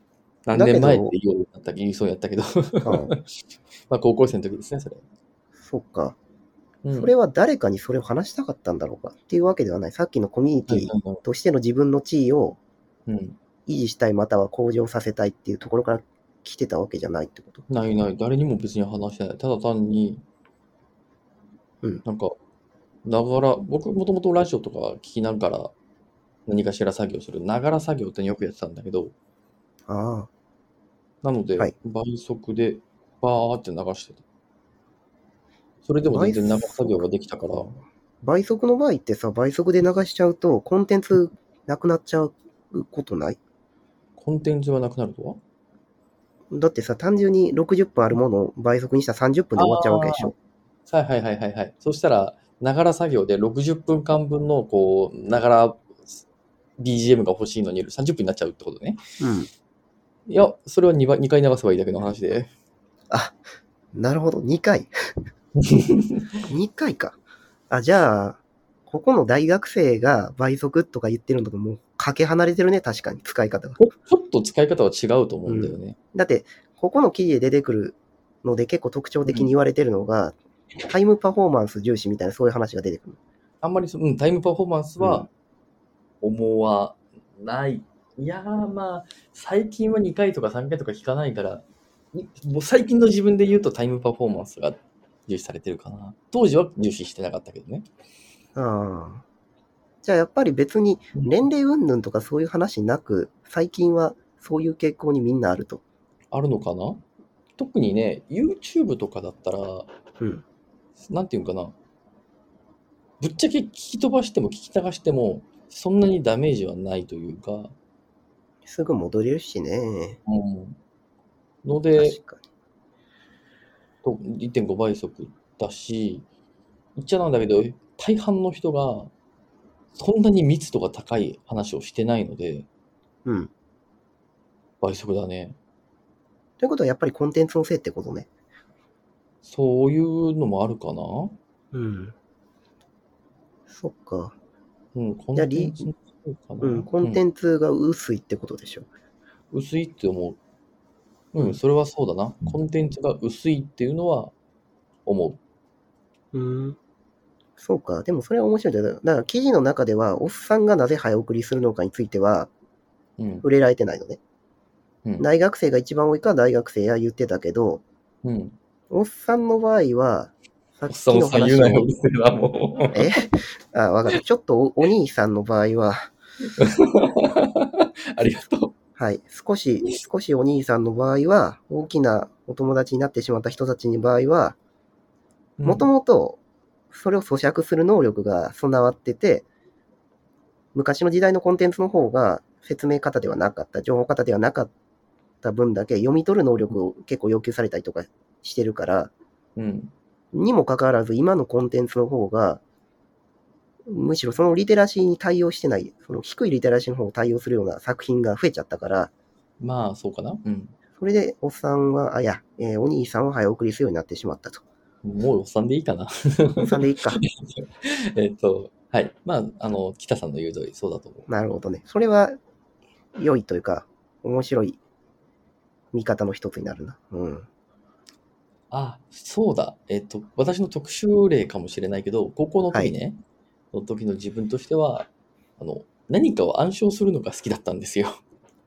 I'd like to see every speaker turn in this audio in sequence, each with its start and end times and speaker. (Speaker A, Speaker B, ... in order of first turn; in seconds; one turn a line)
Speaker A: 0.5-3.2
Speaker B: 0.6-1.1
Speaker B: 2.8-3.1
Speaker A: 3.9-5.0
Speaker B: 5.6-6.2
Speaker A: 6.8-7.1
Speaker B: 7.0-12.6
Speaker A: 10.7-11.2
Speaker A: 13.1-13.4
Speaker B: 13.7-17.6
Speaker A: 17.7-20.2
Speaker A: 22.1-22.4
Speaker A: 23.1-25.7
Speaker A: 26.5-29.1
Speaker B: 29.9-30.3
Speaker A: 31.2-34.2
Speaker A: 35.9-37.8
Speaker B: 36.1-37.0
Speaker B: 38.2-43.4
Speaker A: 44.2-45.4
Speaker B: 46.5-50.3
Speaker A: 49.6-50.3
Speaker A: 50.9-56.2
Speaker A: 56.8-59.0
Speaker B: 59.2-59.5
Speaker A: 60.3-62.5
Speaker B: 63.1-63.4
Speaker B: 63.9-64.9
Speaker A: 65.6-66.3
Speaker B: 66.5-67.2
Speaker B: 67.7-73.8
Speaker A: 73.8-76.0
Speaker B: 75.5-83.2
Speaker A: 79.2-79.5
Speaker A: 83.6-85.3
Speaker B: 85.0-85.3
Speaker A: 86.2-97.9
Speaker B: 98.6-99.2
Speaker B: 100.0-105.8
Speaker A: 106.3-107.0
Speaker A: 107.6-109.9
Speaker A: 111.0-111.7
Speaker A: 113.2-117.7
Speaker B: 118.7-120.2
Speaker A: 120.3-120.8
Speaker A: 121.6-122.2
Speaker B: 122.0-122.4
Speaker A: 124.0-126.3
Speaker A: 127.0-129.1
Speaker A: 129.9-132.7
Speaker B: 133.2-133.5
Speaker A: 134.8-135.6
Speaker B: 136.6-138.3
Speaker A: 139.4-141.4
Speaker B: 141.7-142.1
Speaker B: 143.7-144.3
Speaker A: 144.9-147.2
Speaker B: 145.4-145.8
Speaker B: 146.6-148.9
Speaker A: 149.5-150.4
Speaker A: 151.3-154.3
Speaker A: 155.1-155.4
Speaker B: 156.3-156.8
Speaker B: 157.6-162.5
Speaker A: 163.2-163.4
Speaker B: 163.4-164.2
Speaker B: 165.2-167.8
Speaker A: 168.2-168.6
Speaker B: 168.9-171.9
Speaker A: 170.9-173.3
Speaker B: 172.9-176.1
Speaker A: 176.6-178.7
Speaker B: 179.0-184.6
Speaker A: 185.6-185.9
Speaker B: 185.7-186.4
Speaker B: 186.9-189.5
Speaker B: 190.7-194.7
Speaker B: 195.4-199.1
Speaker A: 199.6-199.9
Speaker B: 200.3-202.6
Speaker B: 203.9-209.1
Speaker A: 209.6-210.8
Speaker B: 211.0-214.6
Speaker A: 215.0-221.3
Speaker B: 216.6-217.2
Speaker B: 221.3-222.4
Speaker B: 223.2-224.8
Speaker B: 225.9-227.5
Speaker A: 228.7-233.2
Speaker A: 233.7-238.2